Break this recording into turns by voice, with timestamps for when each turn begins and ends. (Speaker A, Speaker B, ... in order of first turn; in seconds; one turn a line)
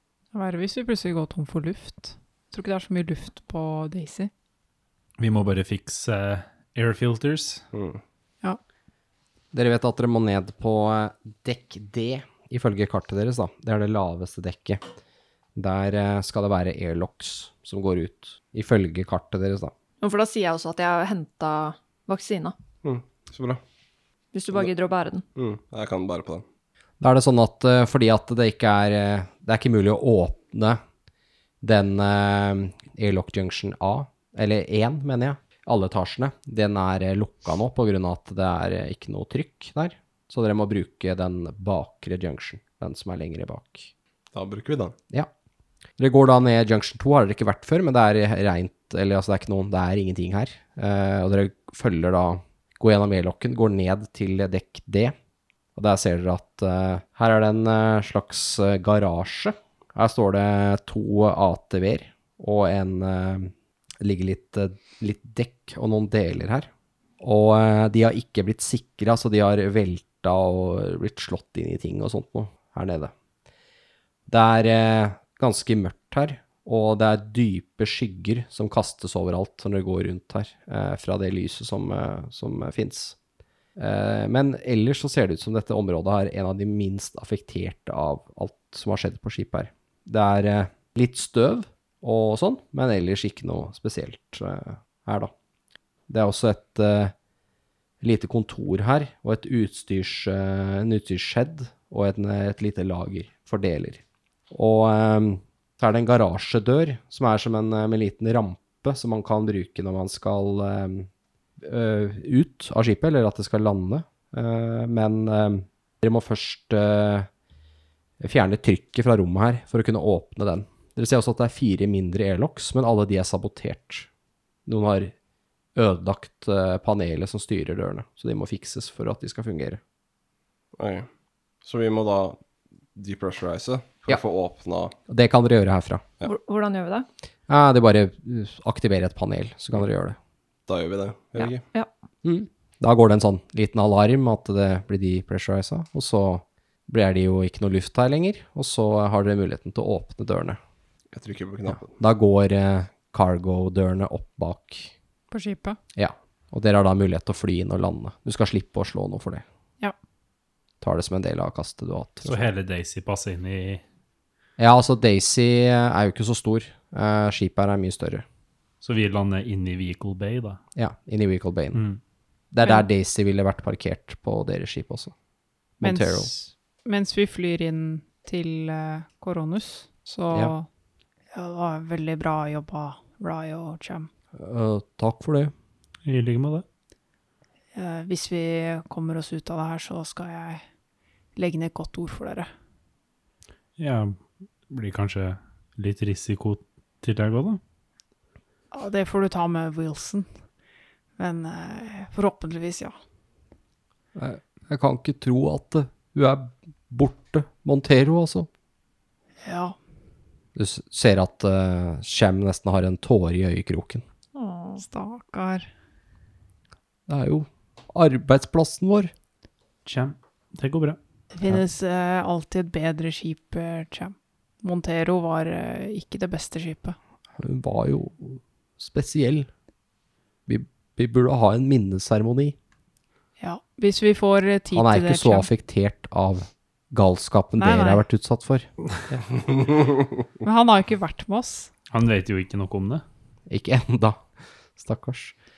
Speaker A: 0.3-4.3
Speaker B: 5.2-7.6
Speaker C: 7.7-8.0
Speaker D: 9.5-14.8
Speaker D: 15.6-19.7
Speaker E: 20.0-22.6
Speaker C: 22.8-23.6
Speaker E: 24.3-25.2
Speaker C: 25.4-26.4
Speaker D: 27.0-30.8
Speaker D: 31.6-43.9
Speaker C: 44.3-44.9
Speaker D: 46.0-55.1
Speaker D: 55.7-73.1
Speaker D: 74.3-83.2
Speaker D: 83.8-95.3
Speaker D: 96.1-97.1
Speaker D: 98.0-111.1
Speaker D: 111.6-117.3
Speaker D: 118.2-124.1
Speaker D: 124.7-125.1
Speaker D: 125.7-129.8
Speaker C: 130.8-131.1
Speaker C: 131.6-132.4
Speaker C: 132.9-134.9
Speaker D: 135.1-136.0
Speaker E: 136.2-137.1
Speaker D: 137.5-140.2
Speaker C: 140.7-141.6
Speaker E: 141.4-141.9
Speaker D: 142.2-150.6
Speaker C: 151.1-151.9
Speaker D: 151.7-154.9
Speaker A: 155.3-155.8
Speaker D: 155.9-159.4
Speaker D: 160.8-162.4
Speaker B: 162.2-163.8
Speaker D: 164.6-168.2
Speaker B: 168.8-170.6
Speaker D: 170.8-171.8
Speaker B: 171.7-172.0
Speaker D: 172.5-175.1
Speaker D: 175.8-176.3
Speaker A: 175.8-180.7
Speaker A: 181.3-184.1
Speaker D: 184.3-185.5
Speaker B: 186.0-186.6
Speaker A: 187.7-190.6
Speaker A: 191.3-192.5
Speaker B: 193.8-197.6
Speaker A: 198.7-200.3
Speaker A: 201.2-202.9
Speaker D: 204.1-208.5
Speaker A: 209.4-209.7
Speaker D: 210.6-214.0
Speaker E: 214.3-214.8
Speaker A: 214.8-215.7
Speaker D: 217.1-219.1
Speaker B: 219.8-221.0
Speaker A: 221.3-227.0
Speaker D: 227.4-229.5
Speaker D: 230.5-232.6
Speaker A: 233.4-235.5
Speaker D: 234.7-239.2
Speaker A: 237.6-238.0
Speaker A: 240.4-241.7
Speaker B: 241.9-243.0
Speaker D: 243.5-244.2
Speaker D: 244.8-245.3